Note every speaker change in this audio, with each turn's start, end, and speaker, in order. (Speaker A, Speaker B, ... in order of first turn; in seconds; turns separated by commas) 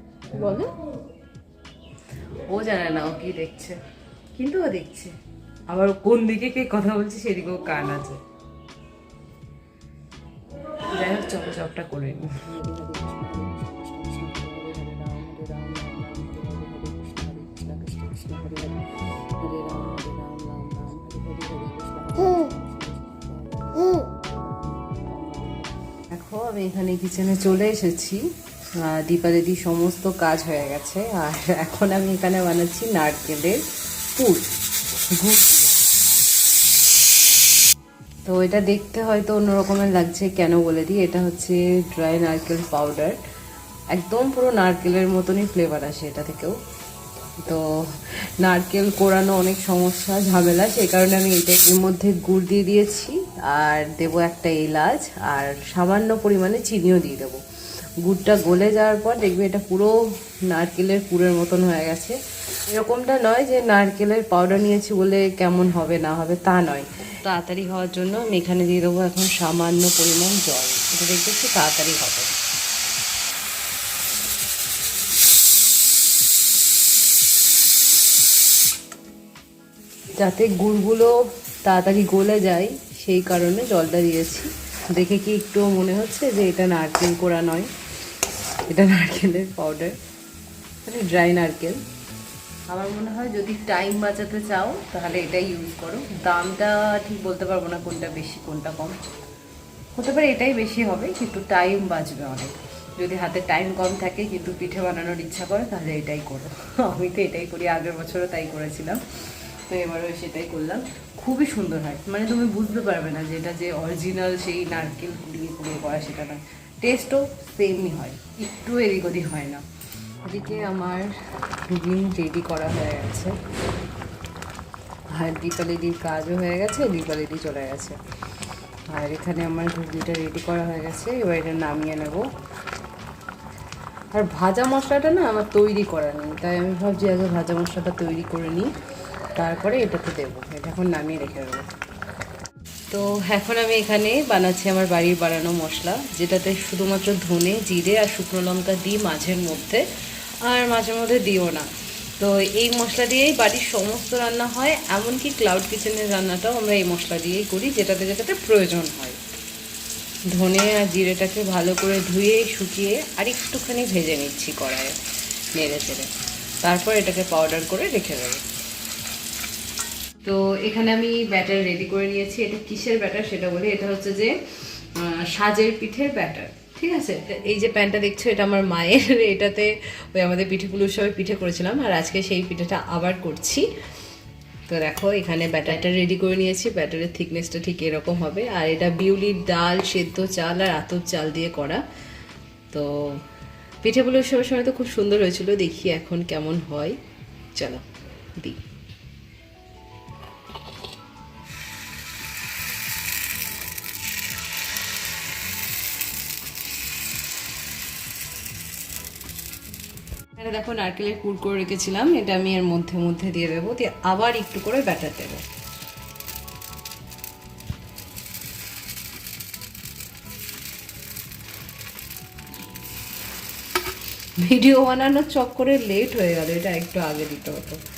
Speaker A: 0.3-0.7, Speaker A: 2.5-3.8, Speaker A: 4.3-5.1, Speaker A: 5.7-8.2, Speaker A: 10.9-18.8, Speaker A: 19.4-28.2, Speaker A: 28.8-33.6, Speaker A: 34.1-34.5, Speaker A: 35.1-35.7, Speaker A: 38.2-43.2, Speaker A: 43.9-46.6, Speaker A: 47.4-57.4, Speaker A: 58.0-60.0, Speaker A: 60.5-72.3, Speaker A: 80.2-87.7, Speaker A: 88.7-90.0, Speaker A: 90.8-91.8, Speaker A: 92.7-99.0, Speaker A: 100.0-119.6, Speaker A: 120.2-123.3, Speaker A: 125.1-128.0, Speaker A: 128.9-132.3, Speaker A: 134.1-138.7, Speaker A: 139.3-141.7, Speaker A: 142.9-149.8, Speaker A: 150.4-159.2, Speaker A: 160.3-164.9, Speaker A: 165.5-166.1, Speaker A: 166.6-168.4, Speaker A: 170.2-183.7, Speaker A: 184.7-191.8, Speaker A: 192.7-193.2, Speaker A: 193.8-197.0, Speaker A: 197.5-197.8, Speaker A: 210.3-215.4, Speaker A: 224.4-227.8